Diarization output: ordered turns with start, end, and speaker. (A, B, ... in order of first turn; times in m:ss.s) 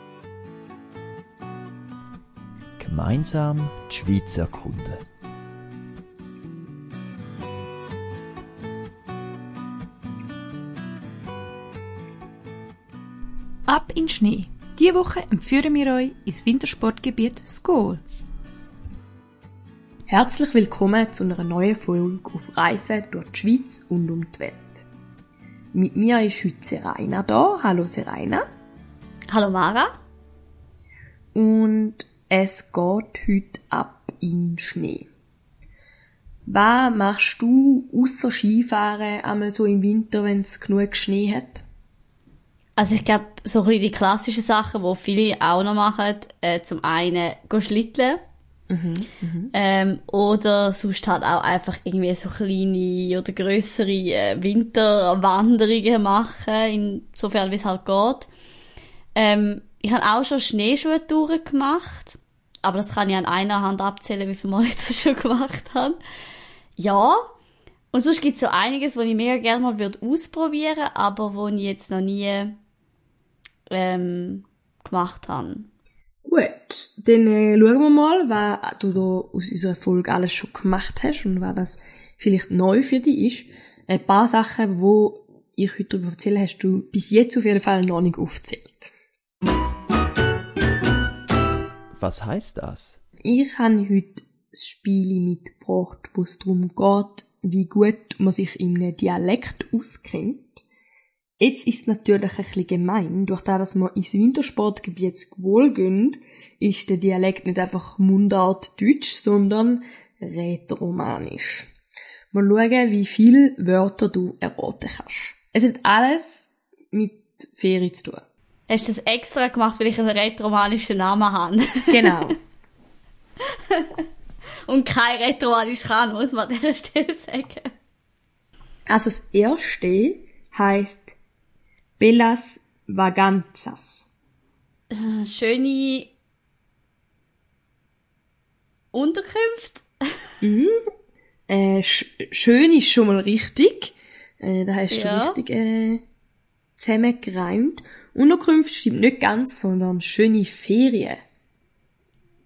0:02.8-0:05.0 A
0:13.7-0:18.0 B
0:20.1-0:24.9 C
0:25.7-0:28.4 C
0:29.3-0:29.9 D
0:31.3-0:35.1 C
0:36.4-0:41.6 C
0:42.8-0:48.2 D
0:48.7-0:49.5 C
0:49.5-0:58.3 D
0:59.2-1:06.0 D
1:06.8-1:07.2 D
1:07.9-1:12.5 D
1:13.7-1:15.7 D
1:16.2-1:28.9 C
1:31.9-1:33.0 A
1:33.2-1:40.6 C
1:41.4-1:51.7 C
1:52.3-1:58.2 C
1:58.7-2:02.3 D
2:01.9-2:02.4 C
2:03.7-2:04.0 D
2:04.7-2:07.7 D
2:08.9-2:11.1 C
2:12.0-2:14.1 C
2:14.9-2:16.1 D
2:18.9-2:19.8 D
2:20.4-2:20.8 C
2:21.5-2:26.0 C
2:24.9-2:25.4 D
2:26.8-2:31.2 C